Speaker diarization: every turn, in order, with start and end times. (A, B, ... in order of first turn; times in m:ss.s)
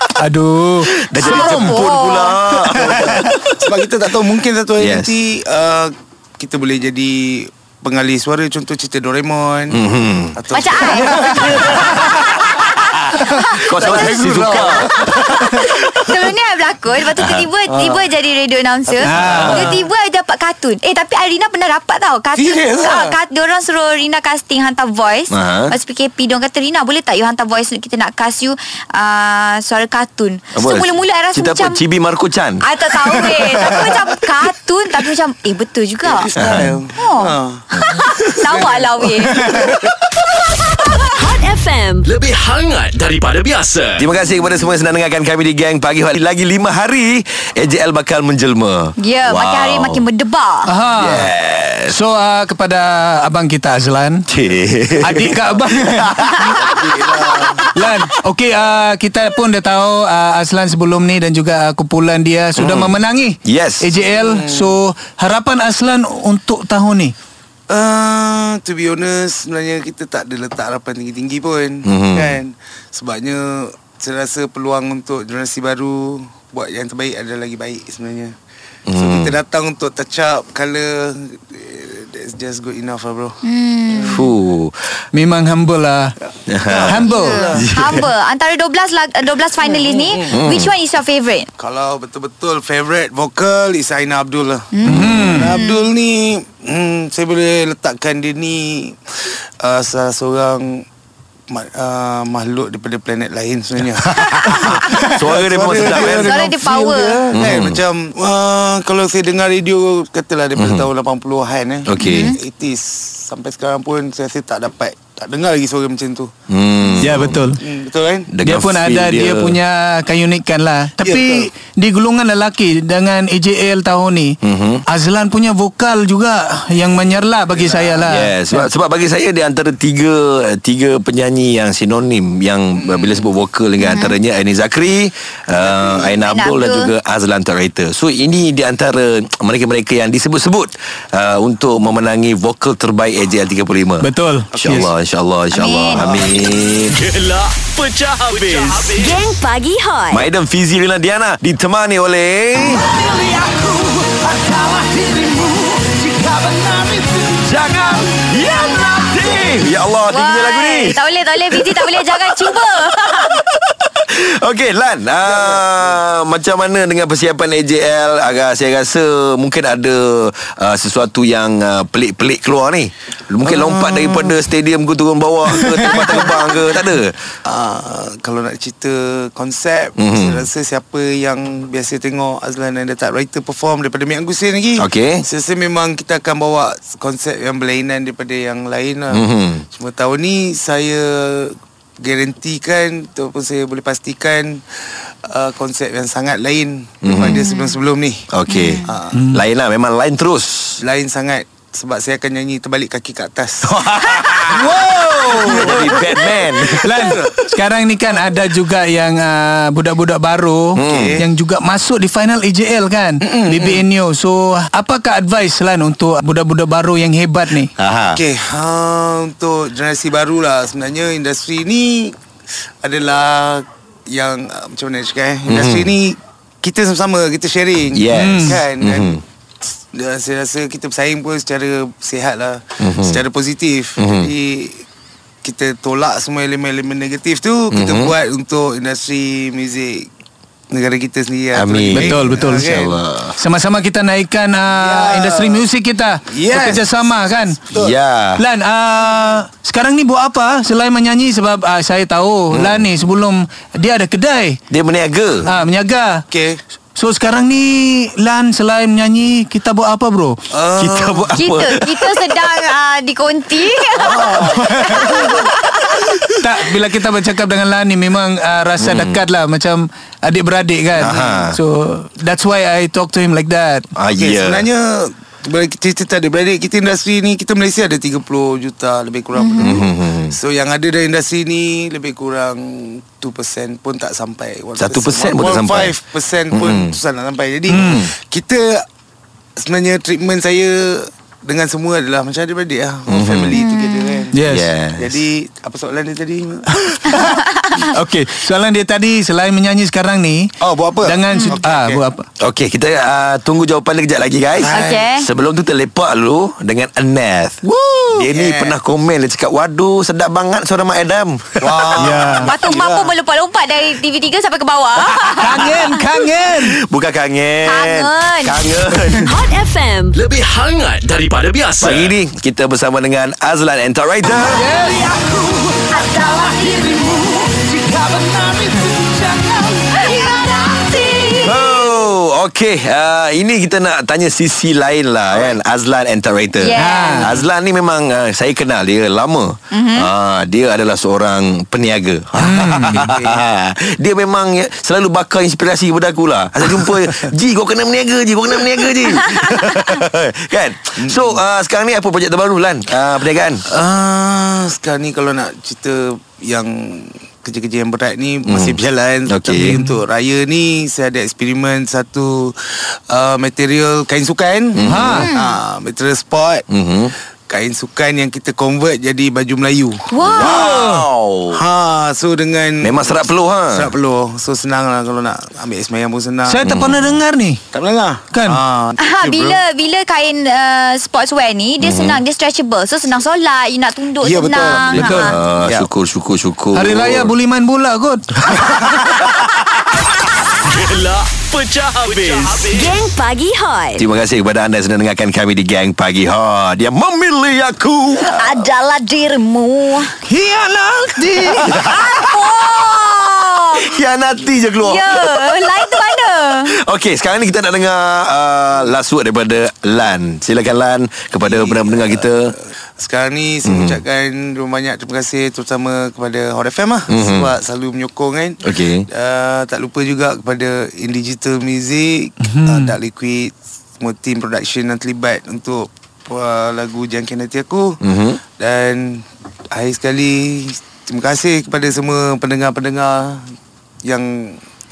0:00.2-0:01.8 A
0:00.9-0:03.7 B
0:01.2-0:02.4 C
0:02.6-0:03.4 A
0:03.6-0:09.8 D
0:04.8-0:05.1 B
0:09.7-0:10.4 B
0:10.4-0:12.5 D
0:10.5-0:31.8 C
0:13.1-0:15.5 B
0:13.1-0:13.4 A
0:13.5-0:16.2 D
0:17.2-0:17.5 B
0:17.7-0:18.1 D
0:18.9-0:19.7 D
0:19.0-0:19.8 A
0:19.1-0:19.8 B
0:22.4-0:23.2 D
0:25.3-0:25.8 B
0:30.6-0:32.6 B
0:32.6-0:36.3 C
0:33.2-0:33.9 A
0:36.0-0:39.8 D
0:36.4-0:36.8 B
0:37.0-0:39.5 C
0:41.0-0:42.1 E
0:42.0-0:44.1 F
0:44.0-0:50.1 B
0:49.0-0:50.7 C
0:50.7-0:51.3 A
0:51.0-0:52.0 B
0:51.9-0:54.3 A
0:54.3-0:57.3 B
0:55.0-0:56.3 A
0:56.4-0:56.8 C
0:56.5-0:57.7 D
0:57.7-1:07.1 A
1:02.6-1:03.9 B
1:04.0-1:04.8 D
1:07.7-1:18.4 D
1:11.8-1:12.4 B
1:18.9-1:19.3 B
1:18.9-1:24.3 D
1:23.4-1:24.3 C
1:24.1-1:24.7 B
1:25.1-1:26.2 A
1:26.5-1:28.1 B
1:26.7-1:27.7 D
1:26.8-1:27.4 A
1:27.0-1:31.5 C
1:29.6-1:30.4 D
1:30.3-1:30.7 B
1:31.6-1:40.8 D
1:34.7-1:35.9 C
1:34.8-1:35.5 A
1:41.5-1:56.3 D
1:44.6-1:46.6 B
1:44.7-1:45.1 A
1:46.0-1:47.2 C
1:47.3-1:47.8 B
1:50.6-1:50.9 B
1:51.9-1:52.3 B
1:52.0-1:52.4 C
1:56.5-1:57.4 B
1:57.0-1:57.6 A
1:57.6-1:58.3 D
1:58.3-1:59.6 B
1:58.4-2:08.7 A
2:01.0-2:01.5 D
2:04.4-2:04.8 B
2:07.5-2:08.1 D
2:08.1-2:27.0 B
2:12.8-2:13.3 D
2:13.8-2:14.2 C
2:15.6-2:16.1 D
2:16.2-2:16.9 C
2:24.0-2:24.9 A
2:24.5-2:24.9 D
2:25.5-2:26.4 C
2:26.9-2:29.2 F
2:28.9-2:30.2 E
2:30.1-2:33.0 B
2:33.0-2:37.3 F
2:37.3-2:57.2 B
2:40.1-2:43.4 C
2:45.3-2:46.0 D
2:53.4-2:54.4 D
2:55.6-2:55.9 A
2:55.9-2:56.2 D
2:57.4-3:18.3 D
3:00.0-3:00.4 B
3:04.8-3:05.2 B
3:09.1-3:09.6 B
3:17.0-3:17.5 B
3:17.2-3:17.8 C
3:18.3-3:20.8 B
3:18.5-3:18.9 C
3:18.8-3:19.2 D
3:19.1-3:19.4 A
3:20.8-3:23.7 D
3:23.6-3:27.3 B
3:24.5-3:26.1 A
3:24.8-3:26.3 D
3:26.6-3:37.7 A
3:26.9-3:27.3 D
3:30.7-3:31.2 B
3:30.9-3:31.2 D
3:33.2-3:33.8 D
3:37.8-3:38.2 B
3:38.2-3:42.2 D
3:42.8-3:54.9 D
3:45.5-3:45.9 B
3:47.9-3:49.2 B
3:48.1-3:48.6 A
3:52.8-3:53.2 B
3:54.0-3:54.3 B
3:55.4-4:00.1 D
3:57.7-3:58.1 B
4:00.7-4:02.9 D
4:01.5-4:03.4 B
4:01.9-4:02.9 A
4:03.4-4:07.6 A
4:04.7-4:05.7 D
4:06.3-4:08.0 D
4:07.7-4:08.4 B
4:08.4-4:14.6 A
4:12.5-4:12.9 B
4:14.7-4:15.4 B
4:15.4-4:16.2 A
4:16.3-4:16.6 D
4:17.0-4:20.4 A
4:20.5-4:21.4 D
4:20.8-4:22.5 B
4:21.3-4:26.1 C
4:23.9-4:25.5 D
4:24.5-4:25.4 A
4:26.3-4:33.9 A
4:28.8-4:29.2 B
4:31.0-4:31.6 B
4:31.0-4:31.3 D
4:34.0-4:34.6 B
4:34.2-4:48.8 D
4:39.4-4:39.8 C
4:39.6-4:40.4 B
4:44.8-4:46.0 B
4:46.5-4:46.9 B
4:47.7-4:48.1 A
4:47.7-4:48.0 B
4:49.6-4:54.4 D
4:53.1-4:53.6 B
4:53.5-4:54.3 C
4:54.3-4:54.7 A
4:54.4-4:55.2 B
4:55.0-4:56.8 D
4:56.7-5:00.5 A
4:57.2-4:57.8 C
5:00.6-5:02.0 D
5:01.0-5:02.3 A
5:01.3-5:01.6 C
5:02.4-5:07.6 B
5:04.6-5:05.1 D
5:04.7-5:05.3 C
5:07.6-5:08.2 A
5:08.2-5:12.3 B
5:08.3-5:08.8 D
5:11.6-5:13.2 D
5:12.0-5:12.5 A
5:12.4-5:16.0 C
5:15.0-5:15.6 B
5:15.4-5:16.8 A
5:16.5-5:19.4 B
5:17.6-5:18.7 C
5:19.2-5:20.2 E
5:20.1-5:22.1 F
5:21.8-5:24.7 B
5:24.4-5:25.1 A
5:25.9-5:31.6 E
5:31.4-5:53.7 B
5:36.6-5:37.3 C
5:36.8-5:37.3 A
5:39.7-5:40.1 C
5:42.4-5:43.1 A
5:43.0-5:43.4 D
5:49.3-5:50.0 C
5:51.0-5:51.4 D
5:53.7-6:06.6 D
5:58.5-5:59.8 B
5:59.6-5:59.9 A
6:04.8-6:05.3 B
6:04.8-6:05.3 A
6:05.2-6:05.6 C
6:06.7-6:07.1 B
6:07.5-6:10.8 D
6:10.1-6:10.6 C
6:10.3-6:11.6 B
6:10.4-6:11.1 A
6:11.5-6:13.2 D
6:12.8-6:13.9 B
6:13.7-6:16.7 D
6:16.5-6:17.6 A
6:16.6-6:17.2 B
6:17.7-6:19.6 D
6:18.3-6:18.6 A
6:19.0-6:25.4 C
6:21.8-6:22.2 B
6:24.2-6:25.0 D
6:24.7-6:27.3 B
6:25.0-6:25.4 A
6:25.6-6:25.9 D
6:26.7-6:28.8 A
6:30.6-6:33.0 F
6:32.7-6:34.0 E
6:34.0-6:38.7 B
6:38.2-6:40.1 C
6:40.3-6:41.8 A
6:41.4-6:42.6 B
6:41.8-6:44.0 C
6:43.7-6:46.0 B
6:44.8-6:46.7 C
6:46.6-6:52.6 B
6:51.4-7:08.0 D
6:53.6-6:54.0 B
6:57.1-6:57.5 B
6:58.6-6:59.0 B
7:02.4-7:03.0 A
7:08.0-7:08.4 B
7:08.6-7:13.5 D
7:14.0-7:14.6 D